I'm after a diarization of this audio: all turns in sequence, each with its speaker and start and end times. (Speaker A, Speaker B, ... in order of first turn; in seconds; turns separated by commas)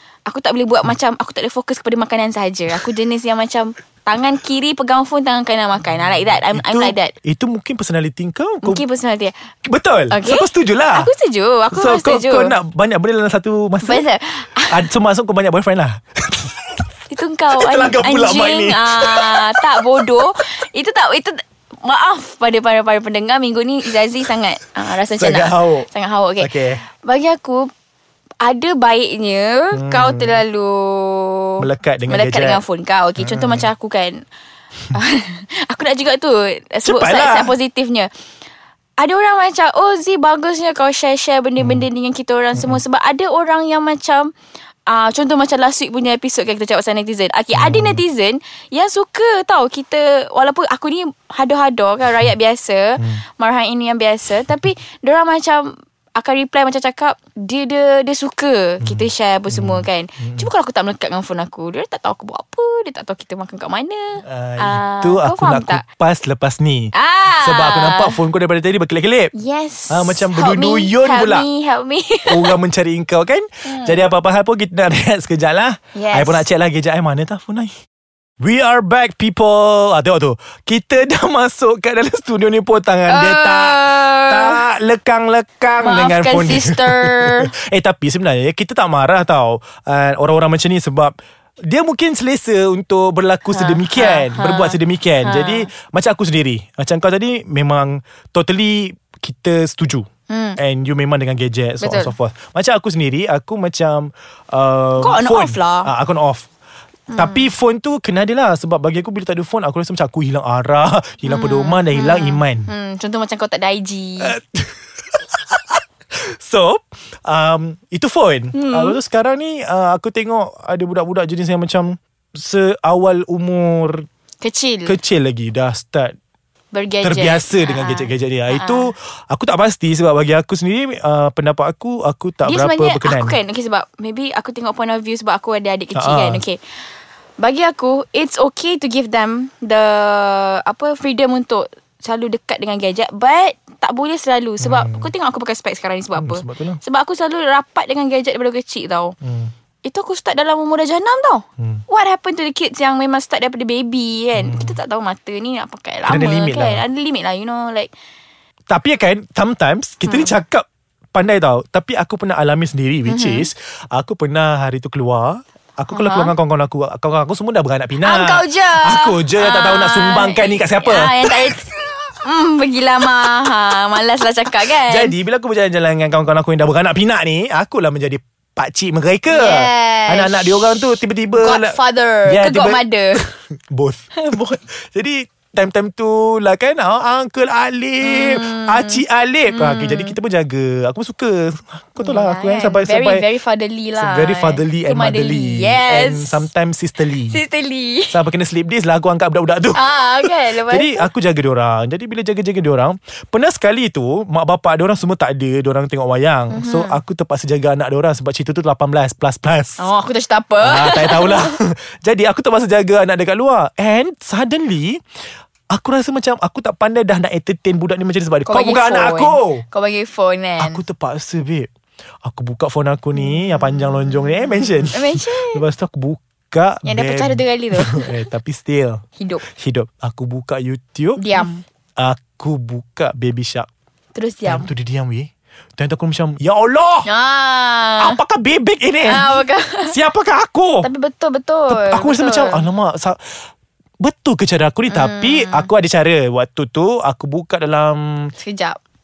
Speaker A: 0.3-7.1, Speaker B: 5.8-8.8, Speaker A: 8.6-9.3, Speaker B: 9.7-11.1, Speaker A: 10.1-12.5, Speaker B: 11.7-14.0, Speaker A: 13.8-14.8, Speaker B: 14.6-16.8, Speaker A: 17.1-27.7, Speaker B: 17.5-20.2, Speaker B: 25.1-25.9, Speaker B: 26.4-26.8, Speaker A: 28.4-34.2, Speaker B: 29.7-30.4, Speaker B: 31.6-32.6, Speaker B: 33.2-33.7, Speaker A: 34.9-38.1, Speaker B: 36.8-37.5, Speaker A: 39.0-44.3, Speaker B: 41.6-41.8, Speaker B: 42.5-42.8, Speaker A: 44.9-65.8, Speaker B: 47.5-48.0, Speaker B: 58.8-60.5, Speaker B: 64.2-69.3, Speaker A: 66.9-68.2, Speaker A: 69.3-72.5, Speaker B: 69.9-71.5, Speaker B: 72.2-77.7, Speaker A: 73.7-74.0, Speaker A: 75.9-76.5, Speaker B: 78.4-91.1, Speaker A: 83.1-84.6, Speaker A: 85.8-87.5, Speaker B: 91.7-100.0, Speaker A: 93.5-95.7, Speaker A: 100.3-100.6, Speaker B: 100.6-106.5, Speaker A: 101.8-102.1, Speaker A: 105.0-105.9, Speaker A: 107.1-107.5, Speaker B: 107.1-112.7, Speaker A: 111.2-114.3, Speaker B: 114.2-124.0, Speaker A: 118.5-119.0, Speaker A: 124.4-125.0, Speaker B: 124.8-126.1, Speaker A: 126.7-128.9, Speaker B: 127.0-133.4, Speaker A: 132.4-136.6, Speaker B: 135.9-136.4, Speaker A: 137.4-149.2, Speaker B: 144.6-145.1, Speaker B: 146.1-146.8, Speaker B: 149.2-149.5, Speaker A: 149.8-157.9, Speaker B: 151.6-151.8, Speaker B: 154.3-154.8, Speaker B: 156.1-156.8, Speaker B: 158.7-171.3, Speaker A: 160.1-160.3, Speaker A: 163.1-163.5, Speaker A: 165.9-166.3, Speaker A: 168.0-171.7, Speaker A: 172.2-175.1, Speaker B: 174.7-193.3, Speaker A: 179.3-180.8, Speaker A: 181.3-183.2, Speaker A: 184.3-184.5, Speaker A: 188.0-190.2, Speaker A: 192.0-196.5, Speaker B: 194.0-197.4, Speaker A: 197.1-198.2, Speaker B: 198.1-209.8, Speaker A: 199.7-201.1, Speaker A: 206.5-207.0, Speaker A: 209.8-211.5, Speaker B: 210.6-215.0, Speaker B: 215.7-219.6, Speaker A: 218.4-220.8, Speaker B: 220.6-221.7, Speaker B: 222.2-233.7, Speaker A: 223.2-223.8, Speaker A: 224.9-225.6, Speaker A: 226.8-228.2, Speaker A: 229.2-229.4, Speaker A: 231.2-231.6, Speaker A: 234.1-234.7, Speaker B: 234.4-237.1, Speaker A: 237.1-238.2, Speaker B: 238.0-240.9, Speaker A: 239.0-239.9, Speaker A: 240.8-242.6, Speaker B: 241.7-243.2, Speaker B: 244.0-248.3, Speaker A: 244.9-245.7, Speaker A: 248.4-248.8